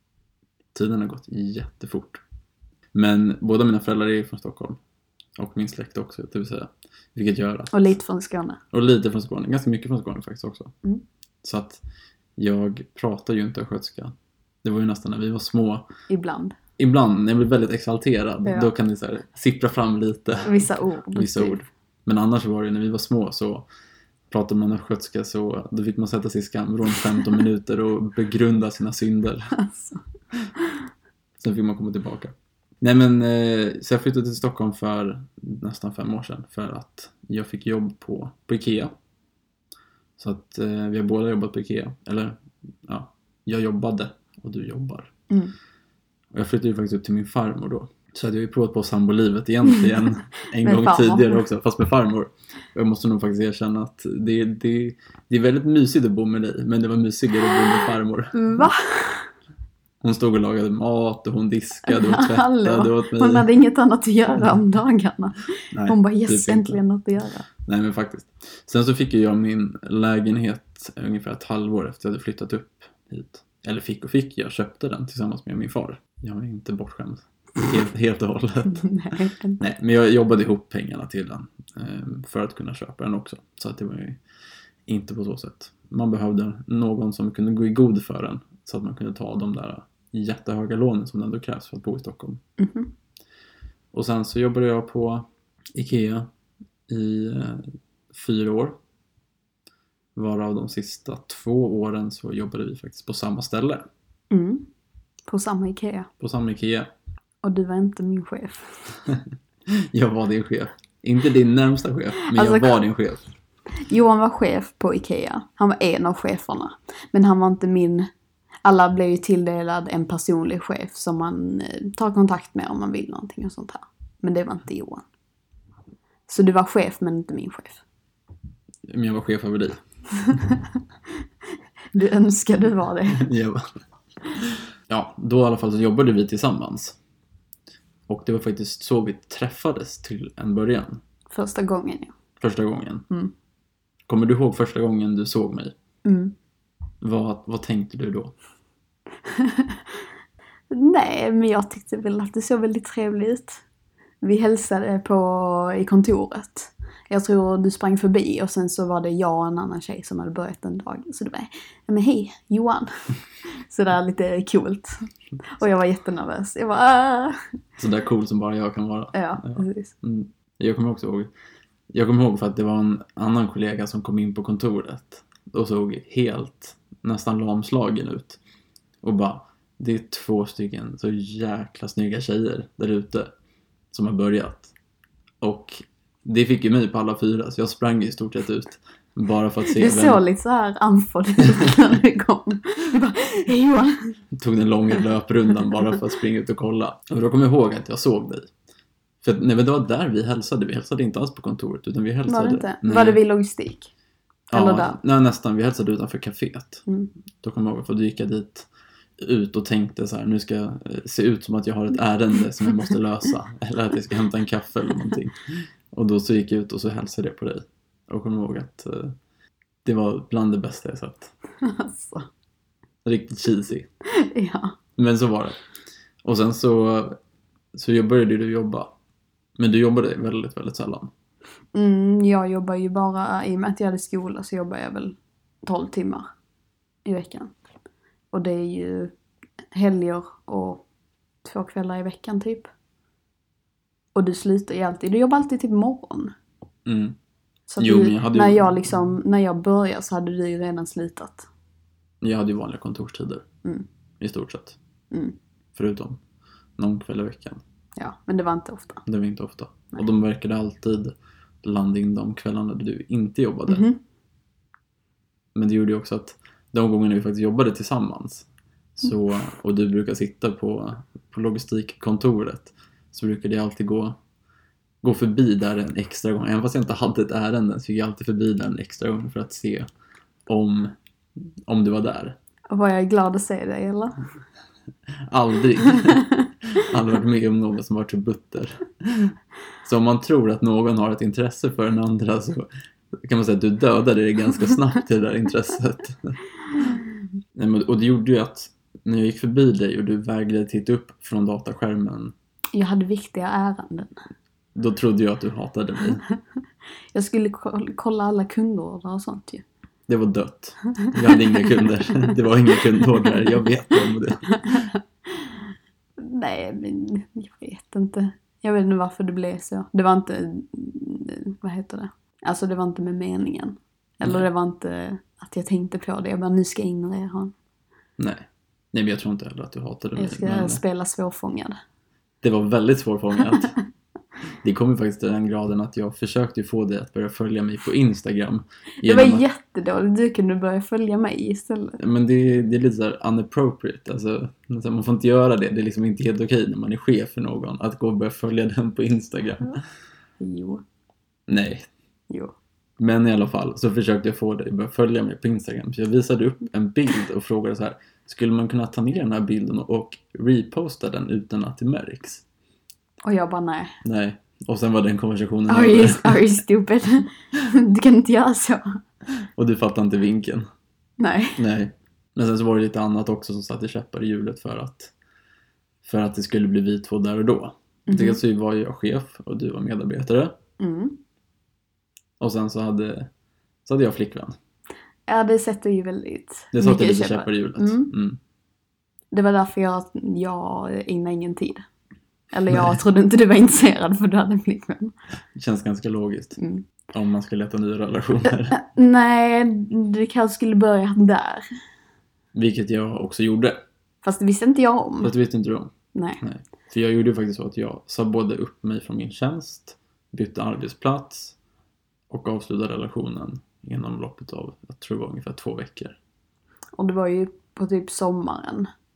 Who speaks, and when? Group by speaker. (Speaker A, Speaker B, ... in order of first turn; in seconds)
Speaker A: 0.7-2.2, 2.9-4.8, 5.4-8.0, 8.7-10.7, 11.4-11.8, 12.4-15.9, 16.8-23.7, 24.3-29.6, 31.4-38.9, 40.2-45.1, 46.3-58.4, 60.0-63.5, 65.7-66.8, 67.6-84.2, 84.9-92.4, 93.9-96.3, 96.9-98.8, 100.2-103.8, 106.2-106.9, 109.1-113.2, 128.9-129.8, 133.1-133.7, 134.4-137.0, 138.1-141.0, 142.4-143.1, 144.1-145.7, 147.0-148.3, 167.8-171.3, 171.9-178.4, 179.0-183.3, 183.9-184.7, 185.4-190.2, 194.3-198.5, 199.2-203.2, 204.5-206.8, 207.4-208.7, 209.2-219.1, 219.8-221.3, 223.0-223.9, 225.0-225.6, 226.2-227.2, 227.7-228.9, 229.6-231.1, 246.8-247.2, 247.8-248.9, 252.2-253.4, 254.2-254.8, 255.7-256.2, 256.8-257.6, 259.1-263.9, 265.5-268.5, 269.0-274.2, 275.0-279.9, 280.5-280.9, 281.6-282.4, 285.2-296.4, 297.5-302.3, 304.7-306.2, 310.1-314.9, 328.2-330.8, 332.4-333.7, 334.6-339.4, 342.0-349.8, 351.5-351.9, 353.0-362.4, 364.0-366.5, 369.6-370.6, 371.6-375.1, 376.0-380.6, 382.4-383.3, 383.8-384.6, 386.7-388.4, 395.5-396.6, 397.1-398.8, 402.5-403.8, 405.2-411.6, 412.3-416.2
Speaker B: 7.7-8.6, 16.1-16.6, 18.4-18.7, 20.4-21.6, 29.5-30.0, 49.7-51.4, 57.4-59.3, 61.8-67.5, 78.6-79.7, 92.6-92.9, 104.3-104.7, 105.3-106.1, 107.4-109.0, 112.3-112.8, 113.8-118.1, 118.6-125.0, 126.3-127.8, 130.2-130.6, 131.9-133.3, 141.3-142.1, 146.0-146.3, 149.2-150.0, 150.7-153.6, 154.2-162.9, 163.4-167.4, 169.1-169.9, 189.7-194.1, 202.3-203.9, 204.5-205.0, 221.6-222.3, 224.1-224.8, 231.7-236.3, 237.0-237.5, 238.3-239.1, 239.7-240.8, 241.4-242.7, 244.1-246.3, 247.7-251.5, 255.1-255.3, 258.0-259.0, 263.7-264.0, 282.7-284.2, 285.9-286.5, 302.7-304.1, 307.1-309.6, 311.0-312.4, 314.6-315.5, 316.2-327.5, 330.1-331.8, 339.0-342.0, 350.4-350.8, 363.2-363.9, 365.7-369.0, 371.2-371.6, 378.1-378.4, 380.8-381.2, 385.3-388.1, 389.3-391.9, 392.5-395.1, 396.6-396.8, 398.7-401.6, 404.2-405.3, 406.1-406.4, 417.0-418.9